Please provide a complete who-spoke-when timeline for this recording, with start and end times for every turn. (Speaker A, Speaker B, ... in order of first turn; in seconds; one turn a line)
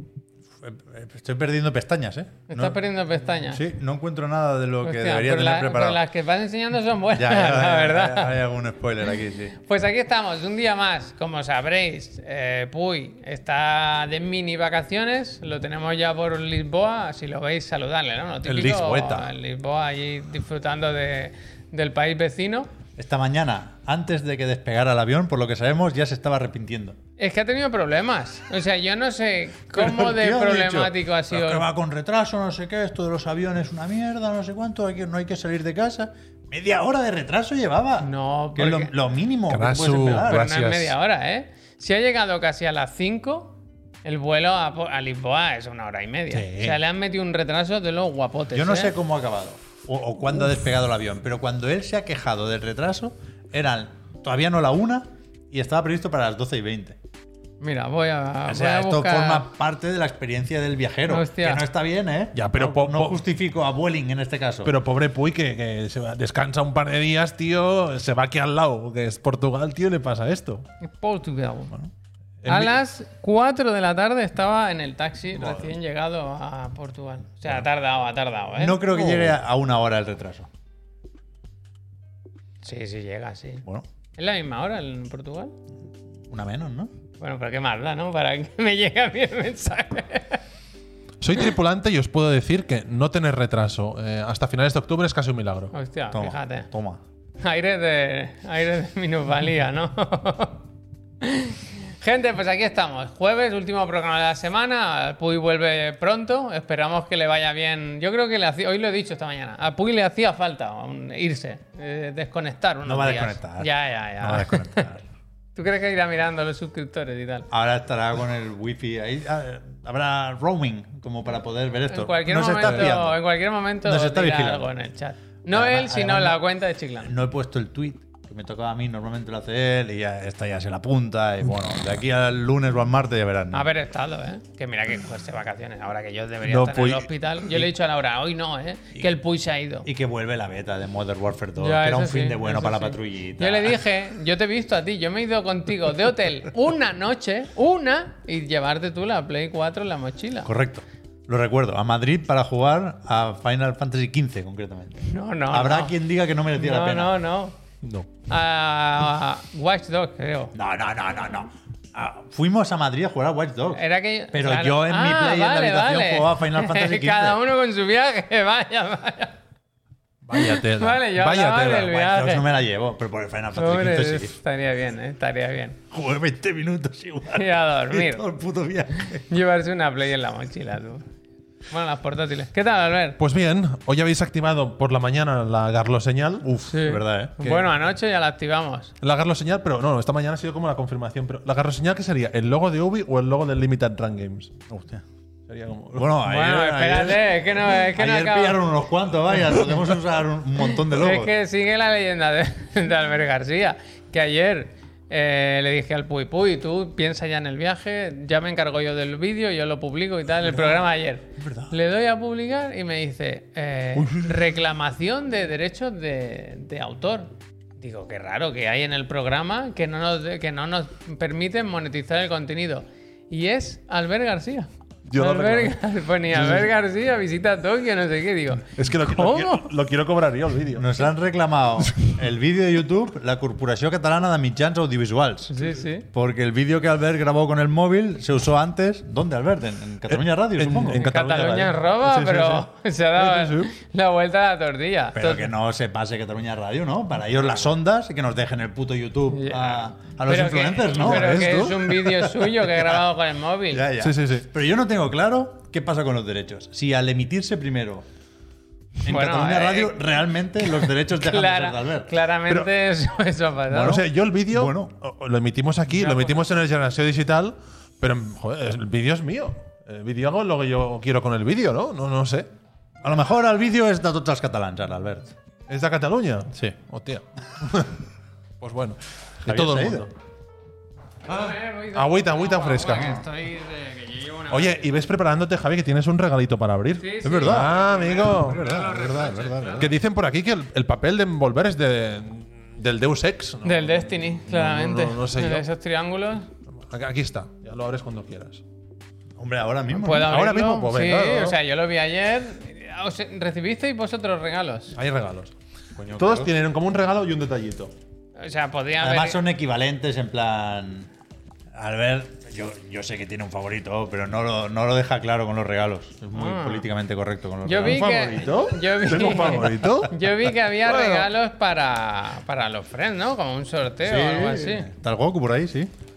Speaker A: 0.6-2.8
Speaker B: 2.5-3.6
Speaker A: 3.5-6.0
Speaker B: 4.8-8.4
Speaker A: 7.1-9.6
Speaker B: 9.6-22.7
Speaker A: 18.4-19.3
Speaker A: 22.9-27.0
Speaker B: 27.2-31.6
Speaker A: 29.7-40.5
Speaker B: 38.0-38.9
Speaker C: 39.5-40.9
Speaker B: 40.2-48.9
Speaker C: 46.3-46.8
Speaker A: 48.5-57.0
Speaker B: 57.6-59.5
Speaker A: 58.5-64.7
Speaker B: 61.0-61.6
Speaker C: 62.3-63.2
Speaker C: 64.6-70.7
Speaker B: 70.8-71.7
Speaker C: 72.4-72.8
Speaker B: 72.4-78.9
Speaker C: 75.3-75.7
Speaker A: 78.5-80.5
Speaker C: 78.9-79.3
Speaker B: 82.6-83.6
Speaker B: 84.2-85.5
Speaker A: 86.3-86.9
Speaker B: 87.2-90.4
Speaker C: 91.2-95.7
Speaker B: 95.7-96.7
Speaker A: 96.1-97.0
Speaker B: 97.4-100.6
Speaker B: 101.2-114.9
Speaker A: 112.8-115.0
Speaker B: 115.5-117.5
Speaker A: 117.5-123.2
Speaker B: 121.9-127.1
Speaker C: 122.6-122.9
Speaker A: 123.8-124.7
Speaker A: 125.5-126.4
Speaker A: 127.0-133.7
Speaker B: 133.5-139.9
Speaker C: 136.4-137.1
Speaker A: 139.8-143.8
Speaker B: 141.6-150.5
Speaker A: 150.4-157.2
Speaker B: 155.0-155.9
Speaker B: 156.5-157.5
Speaker C: 157.8-158.1
Speaker B: 158.3-160.5
Speaker A: 160.5-167.4
Speaker B: 163.7-169.4
Speaker C: 170.2-171.9
Speaker B: 170.3-172.5
Speaker A: 171.8-174.3
Speaker B: 173.6-175.8
Speaker A: 175.9-179.3
Speaker B: 177.3-178.2
Speaker B: 179.2-181.1
Speaker B: 181.7-183.2
Speaker C: 183.2-186.8
Speaker B: 186.7-188.9
Speaker A: 186.8-187.3
Speaker C: 187.4-187.7
Speaker C: 189.0-194.6
Speaker A: 194.7-195.0
Speaker C: 195.5-196.1
Speaker A: 195.9-201.3
Speaker B: 196.2-198.6
Speaker B: 200.6-229.7
Speaker A: 211.4-211.7
Speaker C: 213.9-214.4
Speaker C: 225.1-225.8
Speaker C: 226.3-226.7
Speaker C: 228.7-231.0
Speaker A: 230.7-235.6
Speaker B: 235.5-236.1
Speaker A: 236.1-241.1
Speaker C: 240.1-243.7
Speaker B: 240.9-245.5
Speaker A: 245.1-251.7
Speaker B: 249.3-253.8
Speaker C: 251.0-252.4
Speaker A: 252.6-253.0
Speaker A: 253.7-258.0
Speaker C: 254.0-254.5
Speaker A: 259.0-262.1
Speaker B: 259.0-260.1
Speaker B: 261.1-264.0
Speaker C: 263.7-272.5
Speaker A: 263.7-264.9
Speaker B: 265.9-266.4
Speaker A: 273.0-275.3
Speaker C: 275.7-278.0
Speaker C: 278.6-280.1
Speaker A: 279.4-280.1
Speaker B: 281.3-284.9
Speaker C: 281.5-283.2
Speaker C: 284.5-288.7
Speaker B: 287.0-289.9
Speaker A: 287.2-289.9
Speaker C: 289.8-295.7
Speaker B: 293.6-296.5
Speaker C: 296.8-298.6
Speaker A: 299.4-300.4
Speaker B: 299.9-304.9
Speaker C: 300.1-301.6
Speaker C: 304.9-305.5
Speaker A: 305.9-306.5
Speaker C: 306.1-307.9
Speaker B: 308.4-309.4
Speaker A: 309.0-311.1
Speaker A: 311.7-318.1
Speaker B: 316.3-316.9
Speaker B: 317.6-324.9
Speaker C: 317.8-321.3
Speaker A: 324.0-325.9